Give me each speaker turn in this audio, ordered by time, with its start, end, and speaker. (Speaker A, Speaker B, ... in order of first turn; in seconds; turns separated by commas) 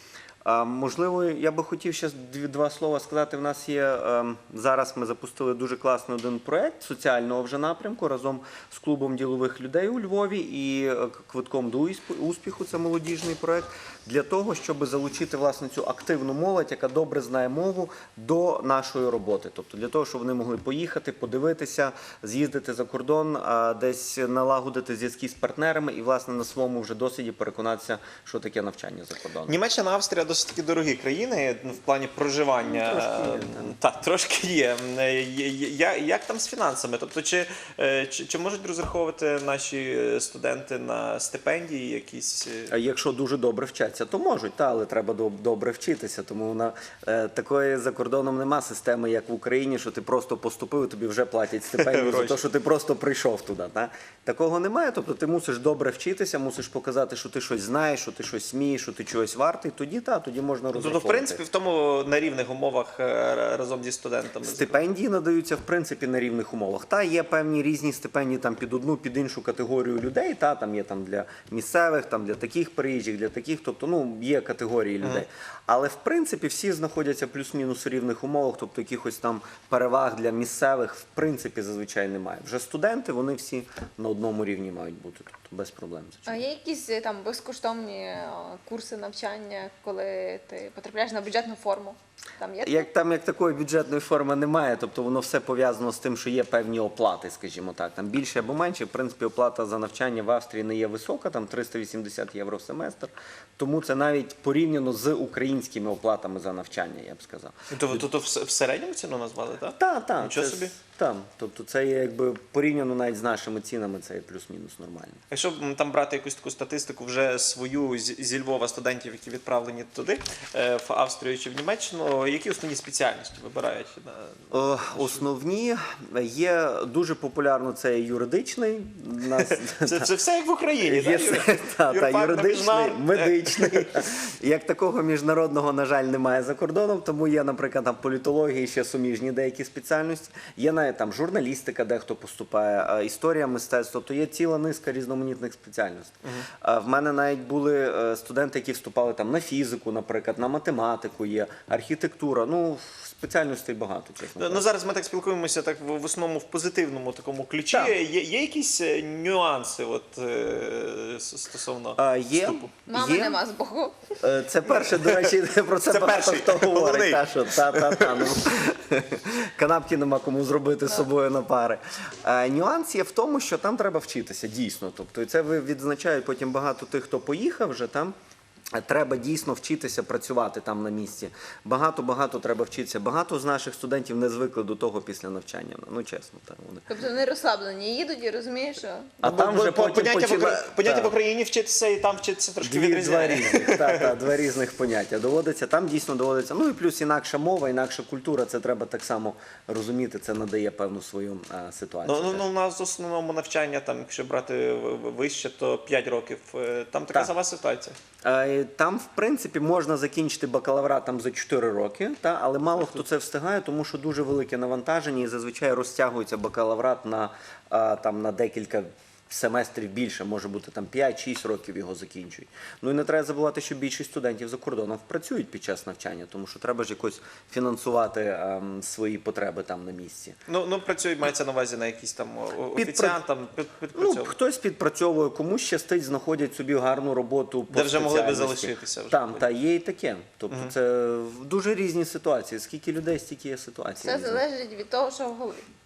Speaker A: 0.4-29.6, Speaker B: 29.5-42.7, Speaker A: 32.6-33.8, Speaker A: 42.7-61.4, Speaker B: 51.7-52.4, Speaker B: 60.7-64.8, Speaker A: 64.4-86.4, Speaker C: 86.3-92.9, Speaker A: 92.6-108.0, Speaker B: 107.7-110.7, Speaker A: 109.8-115.2, Speaker B: 115.3-125.2, Speaker A: 124.5-130.1, Speaker B: 129.4-133.9, Speaker A: 130.8-154.7, Speaker B: 154.4-162.7, Speaker A: 162.0-163.4, Speaker C: 162.9-164.2, Speaker A: 164.2-178.2, Speaker B: 164.7-165.4, Speaker B: 165.9-168.4, Speaker A: 178.7-186.9, Speaker C: 186.9-189.1, Speaker A: 189.2-191.2, Speaker B: 189.2-194.1, Speaker A: 192.6-202.5, Speaker B: 202.1-208.0, Speaker A: 208.2-230.4, Speaker B: 230.5-234.3, Speaker A: 232.8-233.2, Speaker A: 233.9-244.4, Speaker B: 237.7-239.4, Speaker C: 244.0-245.7